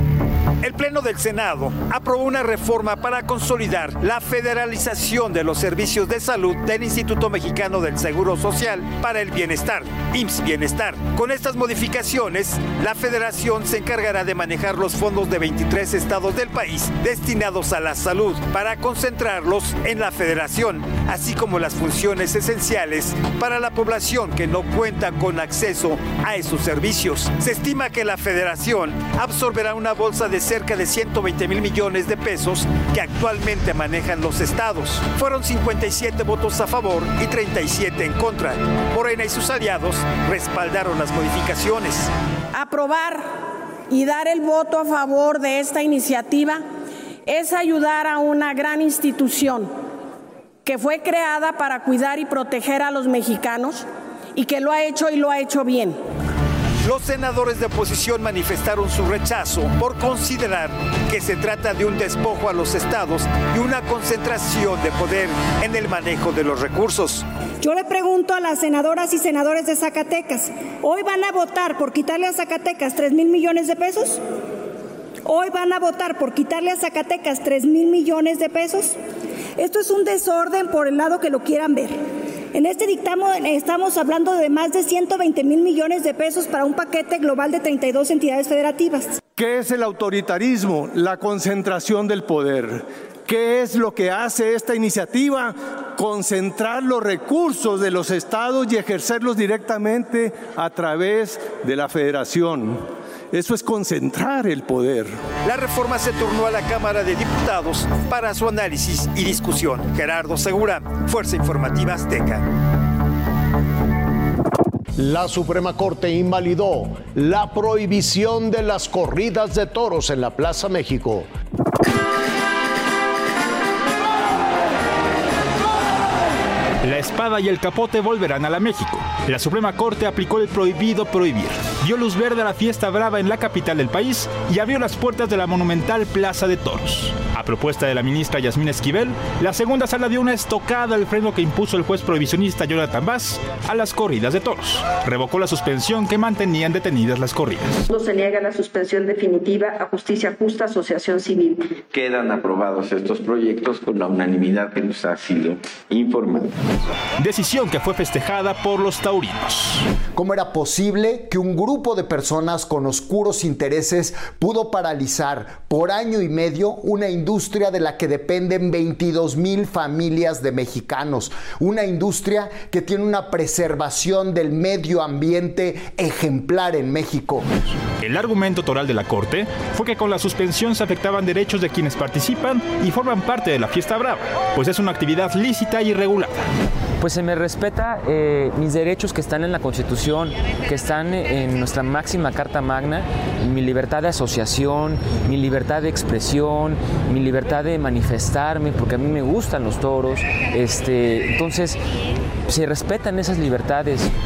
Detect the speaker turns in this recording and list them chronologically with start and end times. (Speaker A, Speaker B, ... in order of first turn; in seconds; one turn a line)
Speaker A: 0.6-42.1
Speaker B: 42.5-43.3
Speaker B: 43.9-46.6
Speaker B: 47.3-49.7
Speaker B: 50.7-56.0
Speaker A: 56.8-67.2
Speaker C: 67.6-74.2
Speaker C: 75.3-79.0
Speaker C: 79.6-82.0
Speaker C: 82.5-89.2
Speaker D: 89.4-105.1
Speaker A: 105.4-112.4
Speaker E: 115.0-121.3
Speaker F: 126.8-147.8
Speaker G: 147.9-151.8
Speaker H: 151.9-156.5
Speaker F: 157.2-159.9
Speaker I: 160.1-177.5
Speaker F: 178.0-186.5
Speaker J: 187.0-201.8
Speaker J: 202.5-204.1